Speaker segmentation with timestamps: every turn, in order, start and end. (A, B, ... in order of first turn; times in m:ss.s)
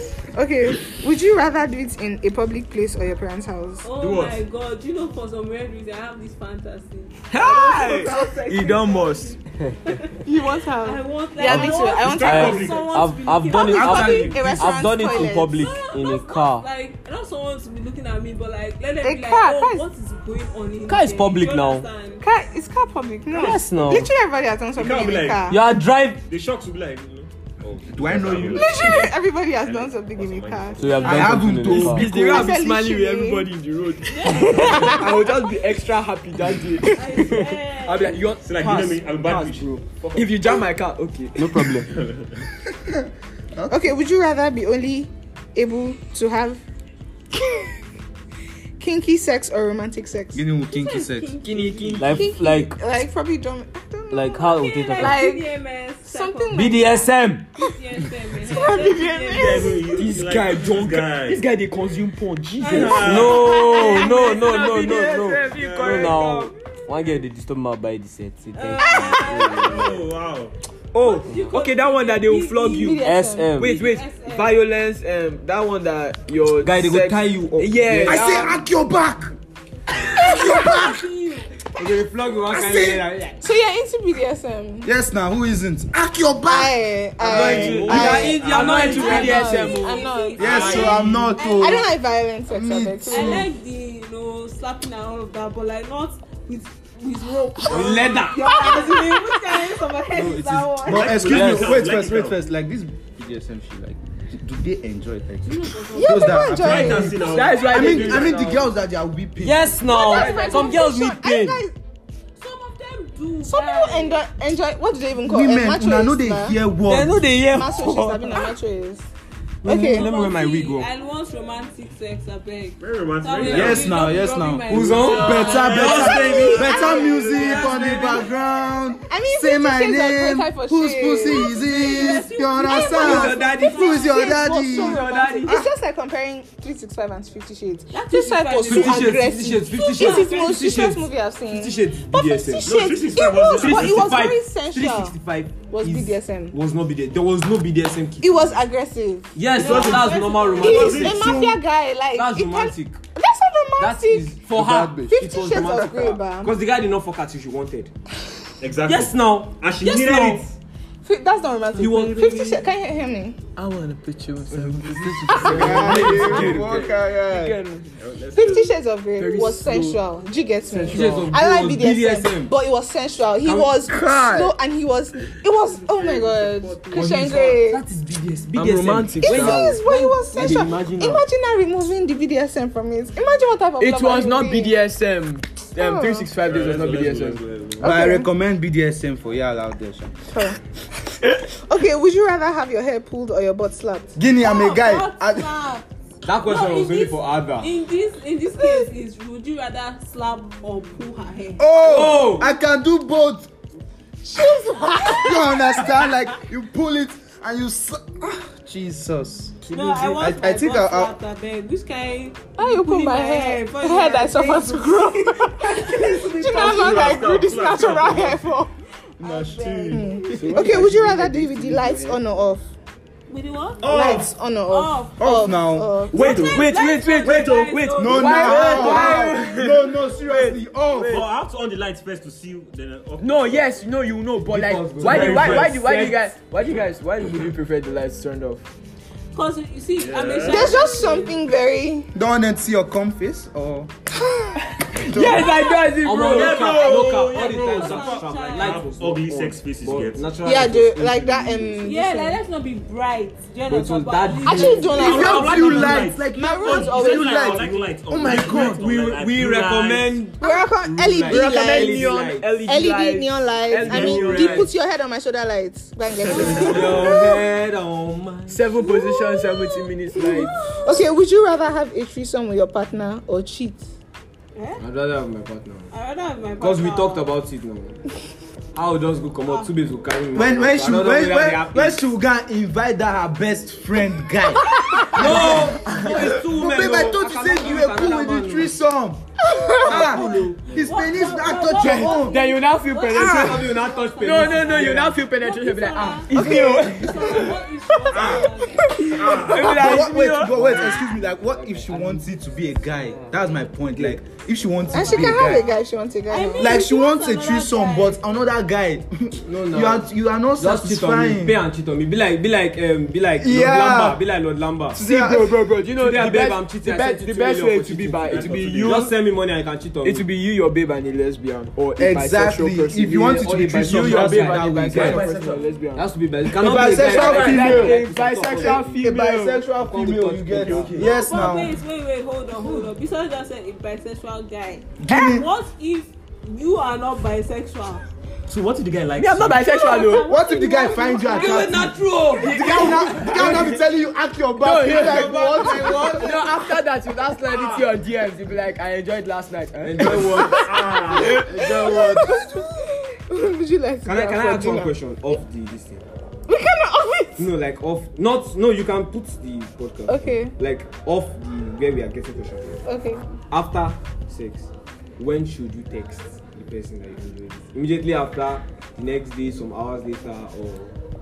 0:00.3-0:03.8 A
0:03.8-0:10.2 B
0:04.0-0:04.4 C
0:07.3-0:09.3 D
0:07.8-0:09.2 E
0:10.2-0:12.8 A
0:10.7-0:14.5 B
0:11.4-0:16.7 E
0:11.9-0:13.2 C
0:13.5-0:15.7 A
0:14.2-0:14.8 F
0:15.2-0:22.2 B
0:19.0-0:19.9 A
0:20.8-0:21.9 E
0:22.2-0:25.6 A
0:23.3-0:23.6 C
0:23.3-0:24.1 E
0:24.8-0:25.7 C
0:25.5-0:26.2 E
0:26.2-0:31.5 C
0:27.9-0:29.1 F
0:28.5-0:31.1 A
0:30.8-0:32.5 E
0:31.0-0:32.2 F
0:31.6-0:41.8 D
0:32.0-0:33.5 A
0:34.1-0:35.5 B
0:34.4-0:35.0 C
0:37.0-0:38.4 B
0:38.4-0:40.6 C
0:41.4-0:41.9 E
0:41.9-0:42.4 C
0:42.8-0:43.0 F
0:43.6-0:43.9 F
0:43.7-0:46.6 A
0:47.4-0:47.7 A
0:48.8-0:50.5 A
0:50.3-0:51.4 F
0:50.7-0:52.2 B
0:51.4-0:52.4 D
0:52.0-0:52.8 E
0:52.2-0:57.0 A
0:54.1-0:55.2 E
0:54.5-0:59.8 B
0:56.5-0:57.5 E
0:58.4-0:59.8 A
0:59.3-1:01.4 C
0:59.9-1:03.4 D
1:02.6-1:05.4 B
1:02.6-1:04.0 C
1:02.7-1:10.0 E
1:04.3-1:06.5 D
1:05.4-1:06.2 C
1:08.6-1:10.0 B
1:09.6-1:10.6 C
1:10.9-1:13.0 D
1:11.0-1:13.1 B
1:11.3-1:11.6 E
1:12.7-1:13.6 A
1:12.8-1:13.8 E
1:13.6-1:18.6 D
1:13.6-1:14.6 B
1:16.6-1:18.3 E
1:18.0-1:19.3 F
1:20.0-1:21.1 F
1:20.1-1:21.5 B
1:21.8-1:23.4 E
1:22.5-1:24.9 A
1:22.6-1:23.0 F
1:24.8-1:27.8 F
1:26.4-1:33.5 A
1:27.2-1:29.8 E
1:27.3-1:29.6 C
1:27.4-1:30.1 D
1:28.6-1:32.0 B
1:30.4-1:31.8 F
1:30.4-1:31.3 E
1:32.5-1:33.5 F
1:33.1-1:41.3 B
1:37.7-1:38.5 E
1:38.3-1:39.4 A
1:40.1-1:49.8 F
1:40.8-1:42.4 C
1:41.2-1:41.8 D
1:45.5-1:48.3 B
1:45.9-1:47.2 A
1:46.5-1:48.3 C
1:47.1-1:48.7 D
1:47.8-1:48.2 E
1:49.4-1:51.6 E
1:49.9-1:51.8 A
1:49.9-1:50.8 B
1:50.1-1:50.8 D
1:52.4-1:54.2 B
1:53.4-1:56.6 A
1:55.2-1:57.4 F
1:56.9-1:58.4 E
1:57.4-1:59.1 A
1:59.6-2:00.9 E
1:59.6-2:00.1 A
1:59.7-2:08.2 B
2:02.8-2:04.1 C
2:03.4-2:15.7 F
2:04.7-2:06.7 E
2:05.3-2:08.3 C
2:05.8-2:07.7 A
2:07.6-2:08.1 E
2:09.0-2:25.2 A
2:11.2-2:14.5 B
2:13.0-2:13.8 E
2:14.7-2:15.5 E
2:15.0-2:15.6 D
2:17.9-2:19.4 B
2:18.7-2:22.8 E
2:20.0-2:20.3 B
2:22.6-2:24.3 C
2:23.5-2:28.6 E
2:25.7-2:26.6 A
2:28.2-2:34.4 A
2:29.3-2:31.4 E
2:29.5-2:31.3 B
2:30.4-2:31.6 C
2:32.1-2:33.0 E
2:33.8-2:37.9 E
2:34.6-2:35.1 F
2:34.7-2:35.0 D
2:35.1-2:36.5 A
2:38.6-2:40.5 C
2:38.8-2:40.5 E
2:41.0-2:43.4 A
2:41.8-2:42.6 E
2:43.6-2:48.1 D
2:44.5-2:46.8 E
2:44.6-2:47.6 F
2:45.5-2:46.8 A
2:48.0-2:48.7 C
2:48.3-2:57.8 A
2:49.2-2:50.0 D
2:50.7-2:51.4 D
2:50.8-2:52.5 E
2:53.4-2:53.8 E
2:53.9-2:54.5 D
2:55.8-2:57.2 C
2:56.9-3:01.2 E
2:58.5-2:59.8 D
2:59.2-3:04.8 A
3:03.8-3:07.4 D
3:05.8-3:06.3 A
3:06.4-3:08.0 C
3:07.8-3:10.3 F
3:07.8-3:08.3 A
3:10.3-3:10.6 A
3:11.4-3:14.3 A
3:14.2-3:15.5 F
3:14.3-3:15.8 B
3:16.2-3:17.7 E
3:16.4-3:21.6 B
3:21.6-3:23.5 F
3:21.8-3:22.5 E
3:24.3-3:26.1 A
3:25.1-3:31.1 F
3:29.7-3:37.1 B
3:32.6-3:38.7 A
3:35.9-3:38.6 C
3:39.2-3:40.5 C
3:39.3-3:42.6 A
3:39.4-3:40.2 B
3:40.2-3:42.2 D
3:43.3-3:43.9 B
3:43.8-3:44.3 C
3:43.8-3:46.5 A
3:44.7-3:45.3 B
3:45.2-3:46.1 F
3:46.1-3:47.8 C
3:46.2-3:49.3 B
3:46.5-3:51.2 D
3:47.7-3:49.5 E
3:47.9-3:51.3 F
3:51.1-3:53.6 C
3:53.2-3:58.6 D
3:54.5-3:56.2 E
3:55.0-3:56.0 C
3:59.3-4:01.4 B
4:00.0-4:00.9 C
4:00.4-4:02.1 A
4:02.2-4:03.9 F
4:04.7-4:06.9 D
4:04.9-4:05.6 F
4:05.3-4:08.9 B
4:05.9-4:11.9 E
4:06.2-4:10.3 C
4:10.4-4:12.4 A
4:11.8-4:15.8 B
4:13.7-4:15.2 E
4:14.4-4:17.8 A
4:14.9-4:20.2 C
4:15.0-4:18.8 F
4:18.2-4:22.5 E
4:20.4-4:22.0 A
4:21.2-4:24.7 D
4:22.6-4:27.4 A
4:23.7-4:24.7 E
4:26.3-4:27.2 B
4:26.6-4:28.6 E
4:28.5-4:30.6 D
4:28.9-4:33.9 A
4:34.6-4:34.8 B
4:34.8-4:35.9 E
4:35.9-4:37.2 B
4:36.6-4:38.0 E
4:38.8-4:42.1 E
4:39.5-4:39.7 B
4:40.3-4:49.2 F
4:45.1-4:48.8 E
4:45.2-4:46.4 D
4:49.8-4:52.4 F
4:49.8-4:51.0 E
4:50.7-4:59.4 B
4:51.9-4:57.6 D
4:53.1-4:55.2 E
4:56.5-4:56.9 A
4:58.1-4:58.5 C
4:58.8-4:59.2 A
4:58.9-5:00.7 D
4:59.1-5:00.1 C
4:59.5-5:05.8 F
4:59.9-5:02.4 E
5:02.9-5:04.2 E
5:04.9-5:06.8 A
5:04.9-5:08.2 B
5:06.6-5:11.6 F
5:09.4-5:15.0 E
5:13.4-5:14.2 F
5:14.9-5:15.7 F
5:15.0-5:19.1 D
5:16.0-5:20.3 E
5:18.2-5:19.1 C
5:20.0-5:29.6 D
5:22.0-5:25.4 F
5:23.8-5:29.0 E
5:25.2-5:25.6 C
5:26.5-5:28.0 F
5:29.0-5:31.8 F
5:29.9-5:31.1 E
5:30.6-5:31.1 C
5:31.0-5:38.0 B
5:35.0-5:35.5 F
5:38.5-5:39.6 C
5:39.1-5:40.3 D
5:39.6-5:42.6 B
5:40.2-5:46.6 F
5:41.4-5:43.8 D
5:41.6-5:42.5 E
5:44.6-5:52.1 D
5:44.9-5:46.1 E
5:45.1-5:46.3 A
5:49.8-5:52.3 E
5:50.5-5:51.5 C
5:50.6-5:54.9 A
5:54.0-5:56.0 E
5:56.5-5:57.5 A
5:57.4-6:02.8 E
6:00.1-6:00.5 A
6:02.9-6:03.2 A
6:03.5-6:10.9 E